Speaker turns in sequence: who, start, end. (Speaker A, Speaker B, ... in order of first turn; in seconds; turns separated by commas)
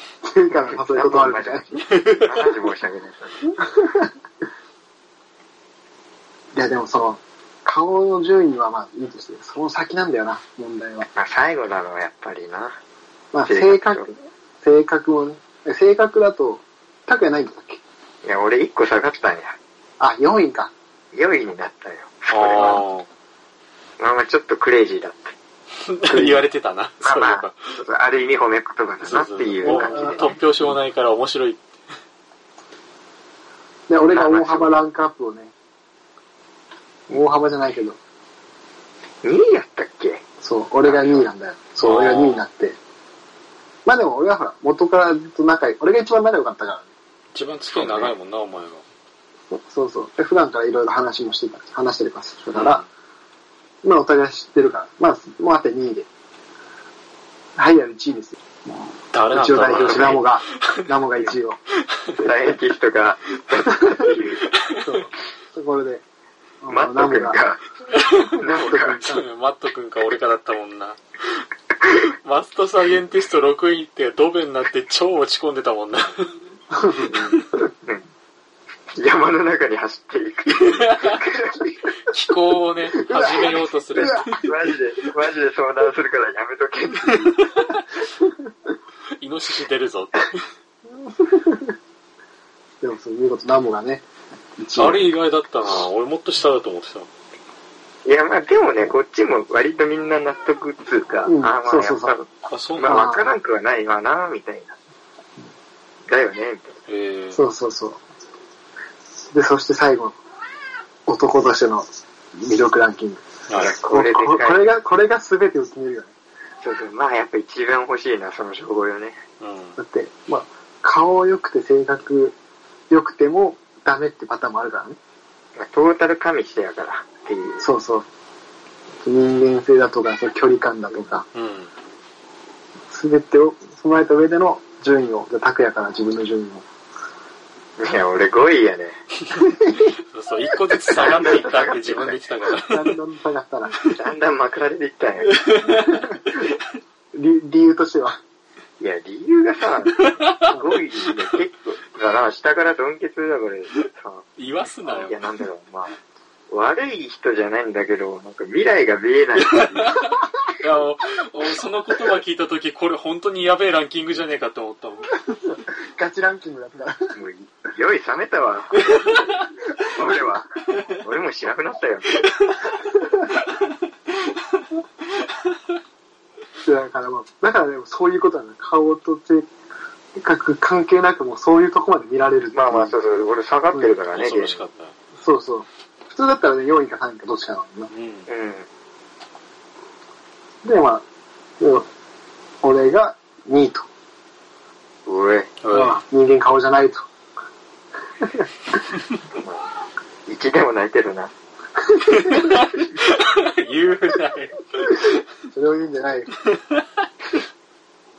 Speaker A: 0.2-1.6, Speaker B: 0.6-3.5, Speaker C: 1.9-2.3, Speaker A: 3.7-4.1, Speaker A: 6.5-11.1, Speaker B: 11.2-12.8, Speaker A: 13.3-17.8, Speaker B: 13.5-14.1, Speaker B: 18.2-19.6, Speaker A: 20.0-20.7, Speaker B: 21.1-22.8, Speaker C: 22.3-23.1, Speaker B: 24.0-25.4, Speaker C: 25.8-27.7, Speaker B: 26.1-26.4, Speaker B: 27.0-30.4, Speaker C: 29.0-31.7, Speaker A: 29.6-30.2, Speaker A: 33.9-35.5, Speaker C: 34.1-34.7, Speaker A: 37.1-38.0, Speaker B: 39.2-40.2, Speaker A: 40.4-42.8, Speaker B: 40.9-41.2, Speaker C: 41.8-42.5, Speaker A: 43.9-46.9, Speaker C: 47.3-48.8, Speaker B: 47.7-48.1, Speaker A: 49.5-52.8, Speaker C: 52.5-52.9, Speaker A: 53.8-56.1, Speaker A: 57.5-58.4, Speaker C: 59.1-60.4, Speaker A: 59.3-61.6, Speaker B: 59.8-60.1, Speaker B: 62.2-64.4, Speaker A: 64.8-66.0, Speaker A: 66.6-67.4, Speaker B: 66.7-67.6, Speaker C: 67.9-76.4, Speaker B: 68.3-69.0, Speaker A: 68.4-69.2, Speaker A: 76.7-77.1, Speaker C: 77.0-77.4, Speaker B: 77.1-78.0, Speaker B: 78.9-81.9, Speaker C: 80.6-81.2, Speaker C: 82.1-84.5, Speaker A: 83.0-84.2, Speaker B: 83.9-87.4, Speaker C: 87.1-87.8, Speaker C: 89.2-90.4, Speaker A: 91.0-91.7, Speaker A: 92.8-95.1, Speaker C: 94.8-97.1, Speaker B: 98.0-104.8, Speaker A: 101.2-102.2, Speaker C: 102.5-103.1, Speaker A: 102.8-103.3, Speaker B: 106.1-106.8, Speaker C: 106.9-107.4, Speaker A: 107.3-108.0, Speaker A: 109.3-110.2, Speaker A: 111.1-113.2, Speaker C: 113.5-113.7, Speaker B: 113.5-114.6, Speaker A: 113.8-116.1, Speaker B: 116.6-119.2, Speaker C: 119.4-119.8, Speaker A: 119.8-122.3, Speaker A: 122.9-125.0, Speaker B: 125.6-127.6, Speaker A: 127.6-128.1, Speaker A: 129.0-131.2, Speaker C: 131.3-131.7, Speaker A: 132.9-136.6, Speaker B: 137.8-139.0, Speaker A: 139.4-139.9, Speaker C: 140.1-142.9, Speaker B: 140.9-142.2, Speaker A: 142.6-143.7, Speaker B: 143.9-145.8, Speaker C: 145.3-146.0, Speaker A: 145.7-146.4, Speaker A: 147.1-148.2, Speaker B: 148.8-154.2, Speaker C: 150.0-150.5, Speaker C: 154.4-155.2, Speaker B: 154.9-156.0, Speaker B: 156.5-160.0, Speaker C: 159.5-165.1, Speaker A: 165.3-167.1, Speaker B: 167.1-169.1, Speaker C: 168.9-169.2, Speaker B: 169.8-172.1, Speaker A: 176.6-179.5, Speaker A: 180.2-182.9, Speaker B: 182.5-184.6, Speaker C: 184.1-184.9, Speaker A: 185.2-187.9, Speaker C: 187.9-188.3, Speaker B: 188.3-188.7, Speaker A: 190.6-191.0, Speaker A: 191.6-191.9, Speaker A: 192.6-193.9, Speaker B: 195.1-195.5, Speaker C: 195.6-196.0, Speaker A: 195.7-197.0, Speaker B: 199.4-199.6, Speaker B: 200.3-201.3, Speaker C: 202.2-205.2, Speaker A: 205.5-206.3